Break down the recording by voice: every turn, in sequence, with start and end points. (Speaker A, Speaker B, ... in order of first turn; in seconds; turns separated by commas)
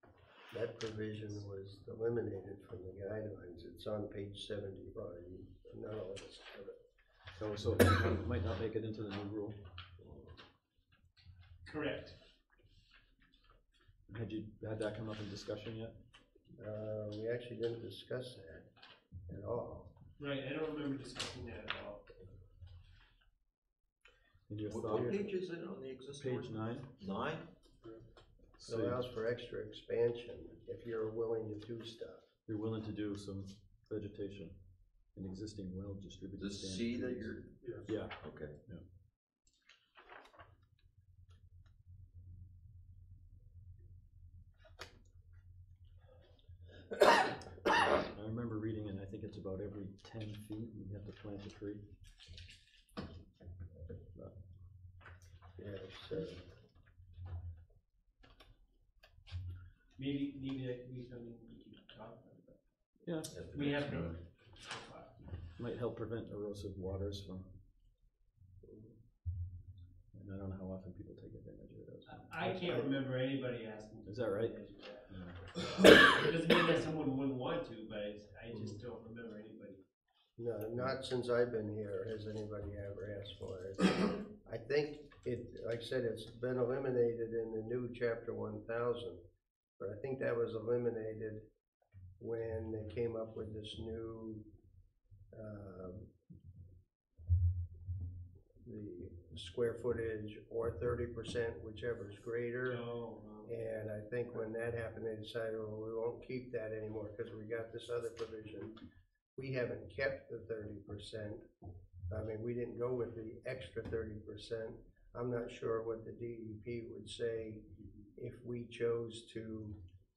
Speaker A: 0.5-6.8, Speaker B: 7.4-9.6, Speaker A: 10.0-10.3, Speaker C: 11.6-12.2, Speaker B: 14.1-15.9, Speaker A: 16.6-18.7, Speaker A: 19.3-19.9, Speaker C: 20.2-22.1, Speaker B: 24.5-25.2, Speaker D: 24.6-27.5, Speaker B: 26.1-26.9, Speaker B: 28.6-29.0, Speaker A: 28.6-32.2, Speaker B: 32.5-34.5, Speaker B: 35.1-38.8, Speaker D: 36.4-38.6, Speaker B: 48.0-51.8, Speaker A: 55.6-56.4, Speaker C: 60.0-62.6, Speaker B: 63.0-63.4, Speaker D: 63.3-64.2, Speaker C: 63.4-65.4, Speaker B: 65.5-67.5, Speaker A: 68.6-68.9, Speaker B: 70.1-72.3, Speaker C: 72.0-79.8, Speaker A: 72.4-73.0, Speaker B: 74.0-74.5, Speaker B: 75.1-75.4, Speaker A: 80.4-89.2, Speaker A: 89.8-91.4, Speaker A: 92.2-94.4, Speaker A: 95.3-96.1, Speaker A: 98.6-102.8, Speaker C: 102.6-103.7, Speaker A: 103.5-108.8, Speaker A: 109.3-111.4, Speaker A: 112.1-117.6, Speaker A: 118.2-119.8